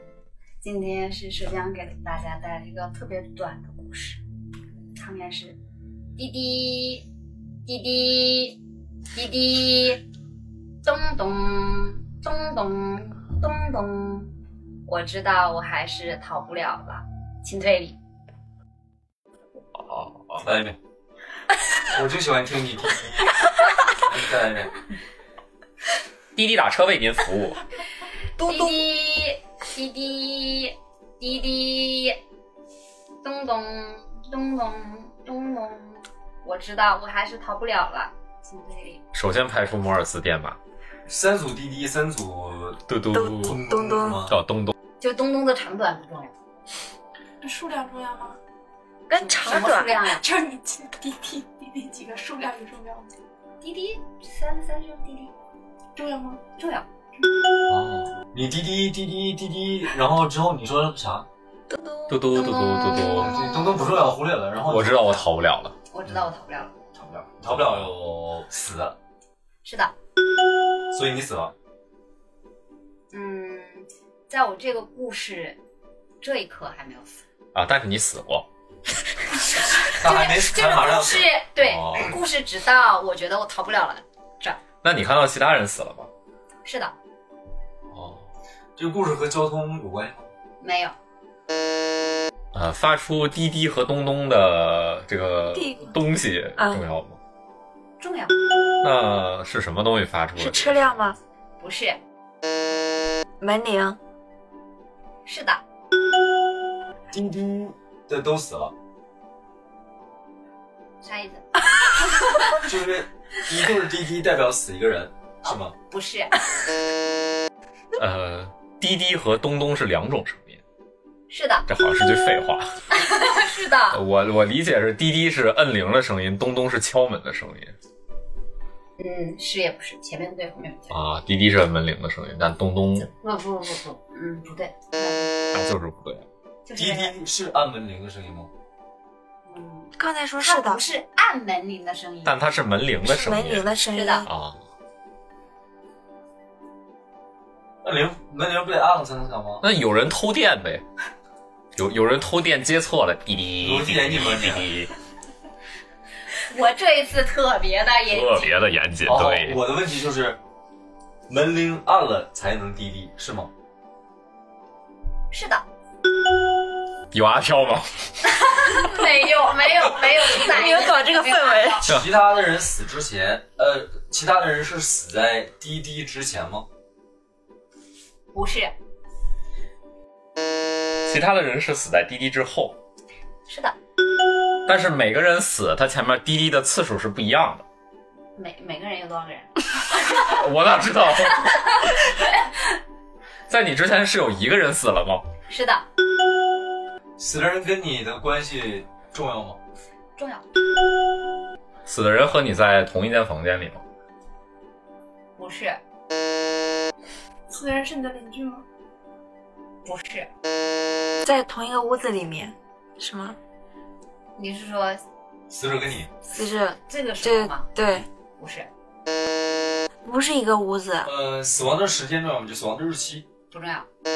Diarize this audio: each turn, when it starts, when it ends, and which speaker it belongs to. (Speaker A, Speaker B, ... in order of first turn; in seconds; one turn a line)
Speaker A: 0.6-4.2
Speaker A: 4.9-5.6
Speaker A: 6.2-7.0
Speaker A: 7.7-8.6
Speaker A: 9.1-10.0
Speaker A: 10.8-14.3
Speaker A: 14.8-18.0
Speaker B: 19.7-20.4
Speaker C: 20.4-20.8
Speaker C: 21.9-23.3
Speaker C: 24.0-24.7
Speaker B: 26.4-27.6
Speaker D: 28.4-28.8
Speaker A: 28.5-32.2
Speaker A: 33.2-39.0
Speaker B: 39.1-40.6
Speaker C: 41.1-42.8
Speaker B: 42.9-43.6
Speaker D: 43.1-44.2
Speaker C: 43.4-44.4
Speaker B: 44.3-44.7
Speaker A: 45.0-46.3
Speaker E: 47.4-48.4
Speaker D: 49.1-50.0
Speaker A: 49.4-50.2
Speaker E: 50.1-53.1
Speaker A: 53.6-55.3
Speaker E: 56.0-56.4
Speaker A: 56.6-56.9
Speaker B: 57.7-58.1
Speaker C: 58.3-61.3
Speaker D: 61.7-63.3
Speaker B: 62.1-63.4
Speaker C: 63.1-65.2
Speaker B: 64.6-65.7
Speaker A: 65.9-66.7
Speaker C: 67.0-69.0
Speaker B: 67.5-67.9
Speaker A: 69.6-69.9
Speaker C: 70.9-71.5
Speaker A: 73.1-75.6
Speaker A: 76.2-77.2
Speaker B: 77.5-78.5
Speaker A: 79.9-84.6
Speaker C: 79.9-81.3
Speaker B: 81.6-82.2
Speaker B: 84.8-86.1
Speaker A: 86.6-86.9
Speaker B: 87.9-88.2
Speaker C: 88.8-90.3
Speaker A: 90.6-90.9
Speaker B: 92.5-97.2
Speaker D: 95.5-95.9
Speaker D: 96.6-96.8
Speaker A: 98.0-98.3
Speaker B: 98.8-100.8
Speaker D: 100.4-101.2
Speaker A: 101.6-102.0
Speaker D: 103.4-104.0
Speaker A: 105.2-105.6
Speaker C: 107.1-108.7
Speaker A: 111.0-111.4
Speaker C: 112.6-115.7
Speaker A: 115.4-116.3
Speaker B: 118.0-120.6
Speaker A: 121.3-121.7
Speaker B: 121.7-122.7
Speaker A: 123.0-124.0
Speaker B: 123.9-127.7
Speaker A: 129.0-131.0
Speaker B: 130.9-133.1
Speaker A: 133.0-135.3
Speaker B: 135.5-136.2
Speaker A: 136.7-137.1
Speaker C: 136.7-138.5
Speaker A: 139.4-142.4
Speaker D: 140.0-140.8
Speaker B: 142.2-143.7
Speaker D: 143.0-144.3
Speaker A: 143.9-144.3
Speaker B: 144.2-144.6
Speaker C: 147.8-149.6
Speaker B: 149.6-150.8
Speaker B: 151.8-154.9
Speaker C: 153.6-154.7
Speaker A: 156.5-158.5
Speaker B: 158.1-159.6
Speaker C: 159.0-160.4
Speaker C: 161.3-163.5
Speaker A: 165.3-165.6
Speaker B: 167.1-167.8
Speaker A: 168.4-171.8
Speaker D: 170.3-171.8
Speaker C: 171.8-176.7
Speaker A: 178.3-178.7
Speaker B: 181.0-182.8
Speaker A: 183.5-183.8
Speaker B: 184.7-187.6
Speaker A: 188.3-190.2
Speaker B: 190.2-191.7
Speaker A: 191.4-192.5
Speaker B: 193.5-195.2
Speaker A: 195.5-195.8
Speaker C: 197.2-199.6
Speaker A: 200.2-200.4
Speaker B: 201.8-203.8
Speaker A: 205.4-205.8
Speaker E: 207.5-208.6
Speaker A: 209.8-210.3
Speaker D: 211.2-213.3
Speaker A: 214.4-215.0
Speaker C: 215.5-216.1
Speaker D: 216.3-218.1
Speaker A: 216.8-217.7
Speaker A: 218.4-218.7
Speaker D: 220.0-221.1
Speaker C: 221.0-223.3
Speaker A: 223.5-223.9